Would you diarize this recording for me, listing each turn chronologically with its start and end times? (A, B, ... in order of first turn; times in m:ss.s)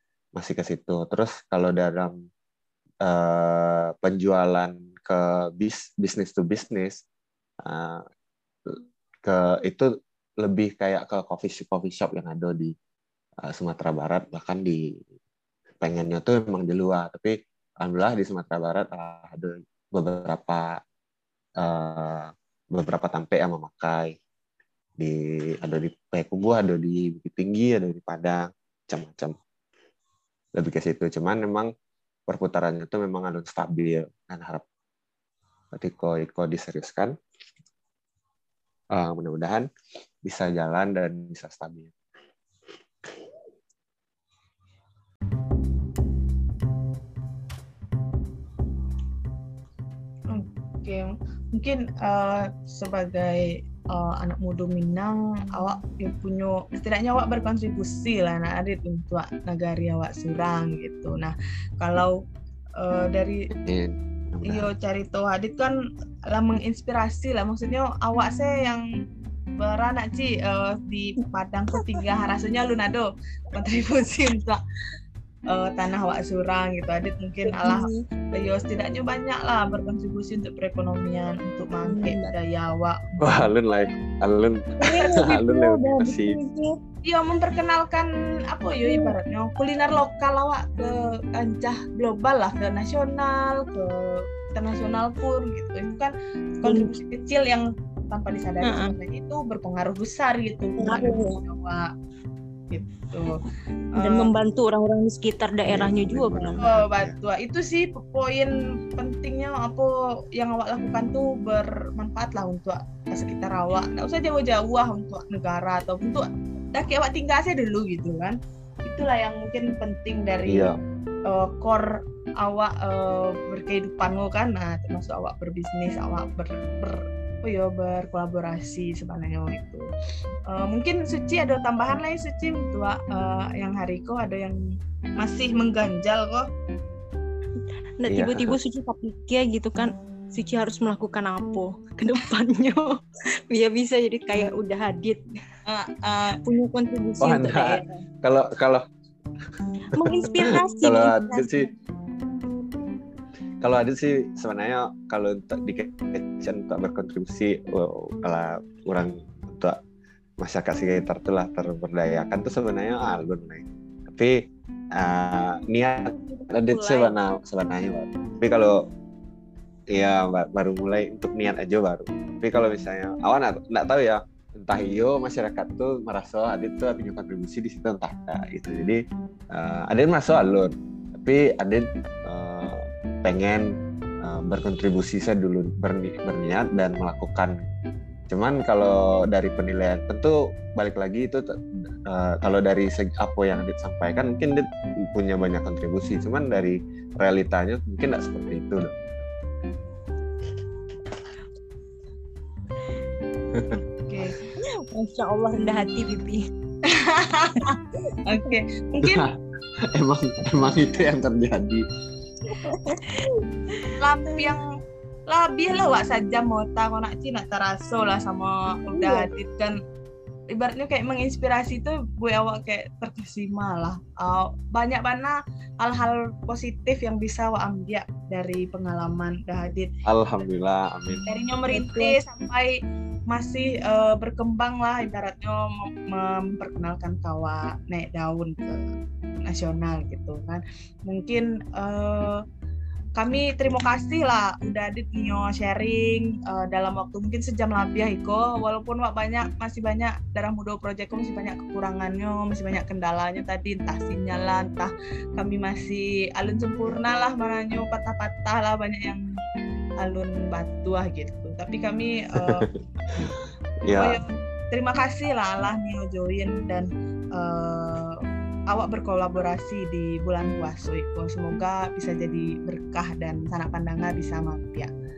0:00.4-0:02.1 A
0:03.0-0:07.0 A
0:07.6-0:08.0 A
0:08.7-0:09.9 A
0:10.4-0:12.7 A
0:13.4-0:14.8 A
0:15.8-0:20.7 A
0:21.6-0:24.1 A
0:25.0-0:29.3 A
0:30.6-0:31.7 A
0:32.3-0:34.6 A
0:35.7-0:37.1 A
0:38.9-0:39.7 A
0:40.2-0:41.9 A
0:50.3-1:02.2 B
1:02.8-1:03.5 B
1:03.6-1:04.7 A
1:04.5-1:05.8 B
1:06.3-1:08.8 B
1:09.6-1:14.6 B
1:15.5-1:23.3 B
1:17.5-1:18.0 C
1:21.8-1:22.3 C
1:23.2-1:26.4 A
1:24.8-1:26.7 C
1:27.0-1:41.9 B
1:28.8-1:29.1 C
1:38.6-1:38.9 C
1:40.8-1:41.4 C
1:42.7-1:43.4 B
1:44.0-1:46.6 C
1:44.0-1:44.3 B
1:45.7-1:47.1 A
1:46.6-2:00.7 B
2:00.5-2:00.7 A
2:01.3-2:09.8 B
2:10.5-2:14.6 B
2:15.2-2:16.5 B
2:18.0-2:22.9 C
2:18.1-2:18.6 A
2:23.5-2:25.2 C
2:25.6-2:26.4 B
2:26.4-2:28.0 C
2:27.2-2:28.8 A
2:29.9-2:31.7 C
2:30.8-2:31.7 A
2:33.6-2:39.8 A
2:40.4-2:44.3 A
2:44.9-2:48.8 A
2:46.3-2:47.1 C
2:49.9-2:59.0 A
2:59.5-3:03.7 A
3:04.2-3:07.7 A
3:08.3-3:11.4 A
3:12.0-3:19.2 A
3:23.5-3:23.8 A
3:24.1-3:24.4 B
3:24.9-3:26.4 C
3:26.9-3:29.3 B
3:29.9-3:31.8 A
3:32.5-3:34.4 C
3:34.0-3:34.7 B
3:35.3-3:39.8 B
3:38.9-3:39.3 C
3:40.5-3:49.9 B
3:50.0-3:51.2 A
3:51.1-3:52.2 C
3:51.3-3:52.7 B
3:53.3-3:58.8 B
3:59.4-4:02.4 B
4:03.2-4:19.2 B
4:20.0-4:22.6 B
4:23.8-4:24.2 A
4:23.9-4:34.9 B